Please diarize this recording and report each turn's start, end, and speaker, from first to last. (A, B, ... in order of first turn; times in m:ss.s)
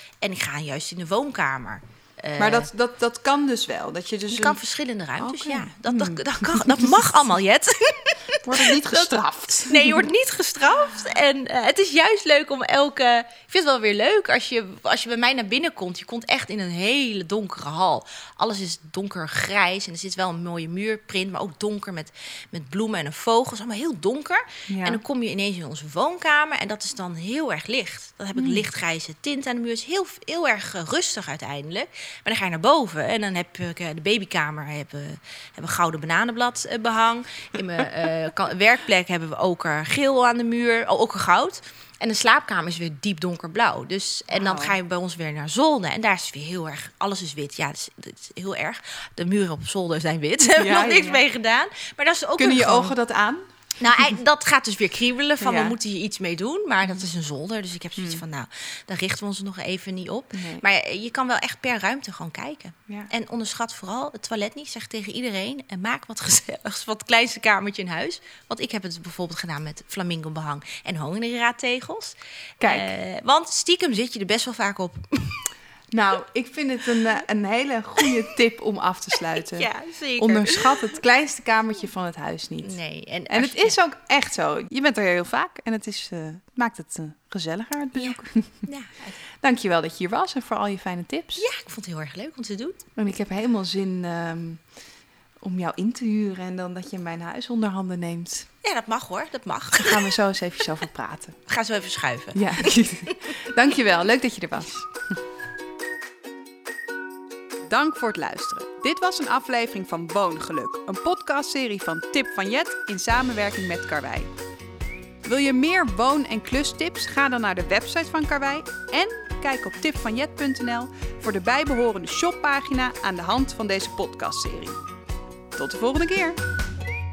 0:00.2-0:02.7 A
0:02.4-0:04.6 B
0:04.3-0:52.9 A
0:05.2-0:06.9 B
0:08.4-0:10.1 B
0:24.7-0:25.0 B
0:28.4-0:28.6 B
0:44.3-0:44.8 B
0:50.6-0:51.2 B
0:52.4-0:53.4 B
0:53.8-1:15.5 A
0:55.4-0:55.8 B
0:58.0-0:58.2 B
1:00.3-1:00.6 B
1:12.6-1:12.9 B
1:15.9-1:22.8 B
1:19.4-1:20.9 A
1:22.6-1:23.8 A
1:23.3-1:28.7 B
1:28.0-1:29.2 A
1:29.4-1:31.4 B
1:31.4-1:32.8 A
1:33.0-1:34.6 B
1:35.4-1:38.5 B
1:38.6-1:40.1 A
1:39.8-1:41.4 B
1:41.5-1:43.2 A
1:42.4-1:44.8 B
1:47.7-1:54.3 B
1:55.2-2:04.8 B
2:05.6-2:06.4 B